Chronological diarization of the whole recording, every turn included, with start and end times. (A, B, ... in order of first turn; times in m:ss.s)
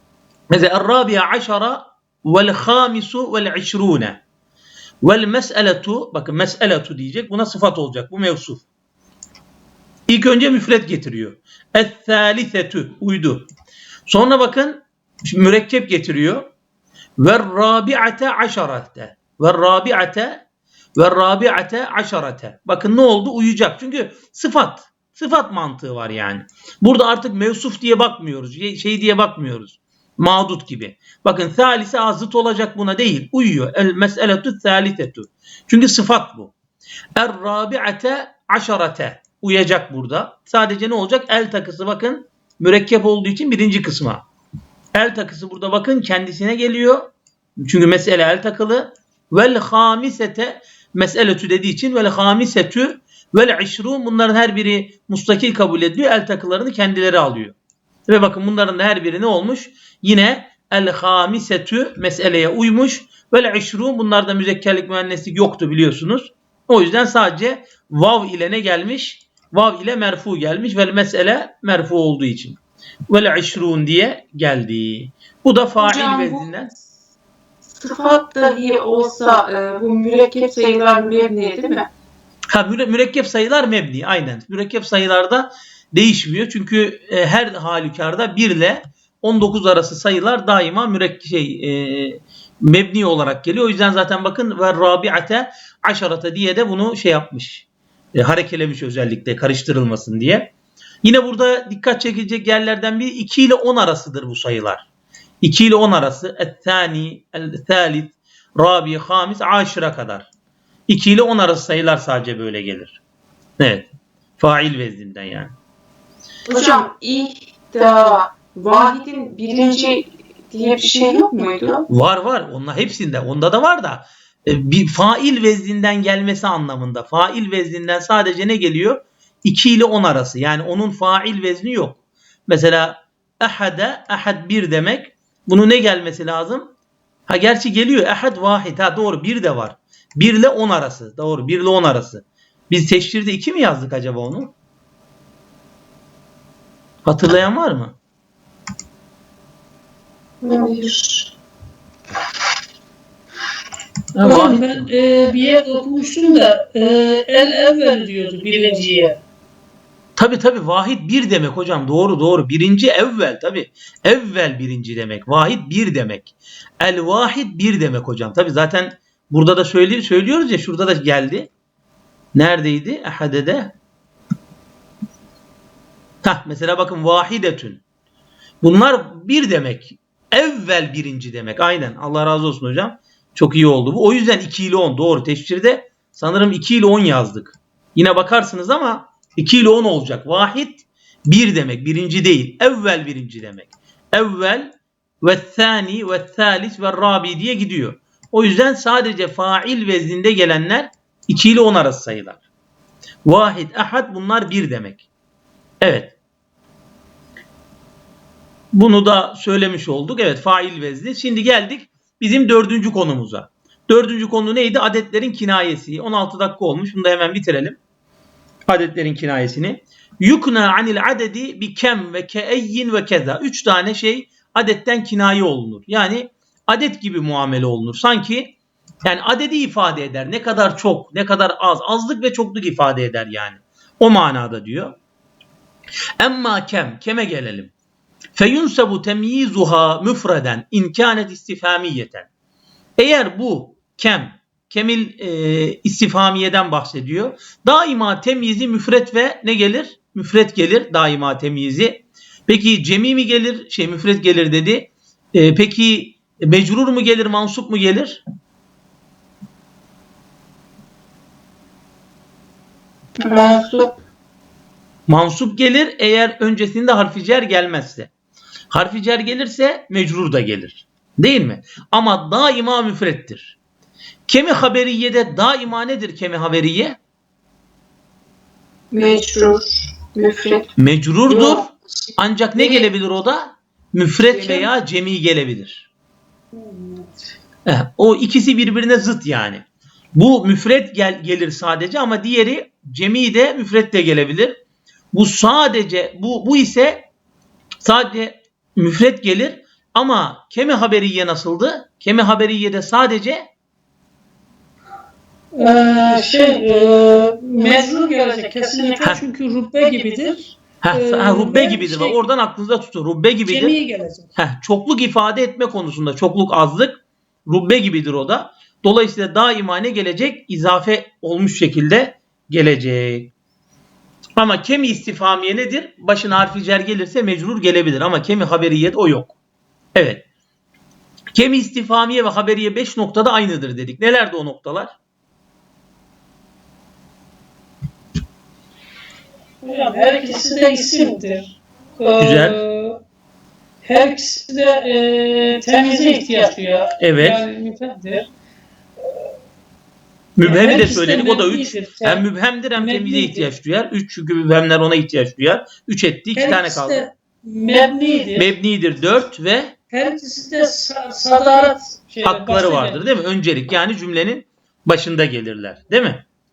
0:00.5-0:04.2 A
0:05.0-0:08.6 A
0:10.1-0:13.5 A
0:14.1-0:16.5 A
0:17.2-0:20.4 A
0:21.0-0:36.5 A
0:37.2-0:44.2 A
0:44.9-0:57.6 A
0:58.1-1:12.6 A
1:13.1-1:16.7 A
1:15.8-1:16.7 B
1:17.6-1:21.9 B
1:22.5-1:40.5 A
1:41.0-1:44.9 A
1:45.4-1:50.3 A
1:50.9-1:53.0 A
1:53.6-1:55.5 A
1:56.4-2:01.9 B
2:01.9-2:16.7 A
2:17.3-2:24.5 A
2:27.0-2:28.0 A
2:30.4-2:31.3 B
2:34.1-2:34.9 A
2:34.2-2:39.2 C
2:40.2-2:51.5 A
2:52.3-2:53.7 A
2:56.2-2:57.8 A
2:58.6-3:22.4 A
3:23.2-3:25.0 A
3:25.8-3:26.1 A
3:28.7-3:37.8 A
3:38.7-3:55.0 A
3:56.2-3:57.7 A
3:58.3-4:02.3 A
4:03.0-4:18.2 A
4:23.2-4:24.0 B
4:25.1-4:28.1 A
4:28.7-4:33.6 A
4:34.3-4:37.0 A
4:38.9-4:40.7 B
4:40.8-4:45.9 A
4:41.3-4:41.7 B
4:42.6-4:42.9 B
4:44.3-4:44.7 B
4:46.5-4:47.1 C
4:47.6-4:49.6 A
4:50.1-4:54.6 A
4:55.1-4:57.0 A
4:57.8-5:03.4 A
5:05.5-5:12.2 C
5:10.8-5:13.8 A
5:13.5-5:14.3 C
5:14.4-5:23.3 A
5:24.4-5:29.4 A
5:29.9-5:30.2 A
5:31.3-5:34.9 A
5:39.6-5:43.0 C
5:42.2-5:42.6 A
5:43.8-5:48.3 C
5:47.0-5:47.4 A
5:50.4-5:57.1 A
5:50.4-5:52.2 C
5:52.8-5:53.5 C
5:56.4-5:58.5 C
5:58.4-5:59.7 A
5:59.9-6:03.1 C
6:02.2-6:06.2 A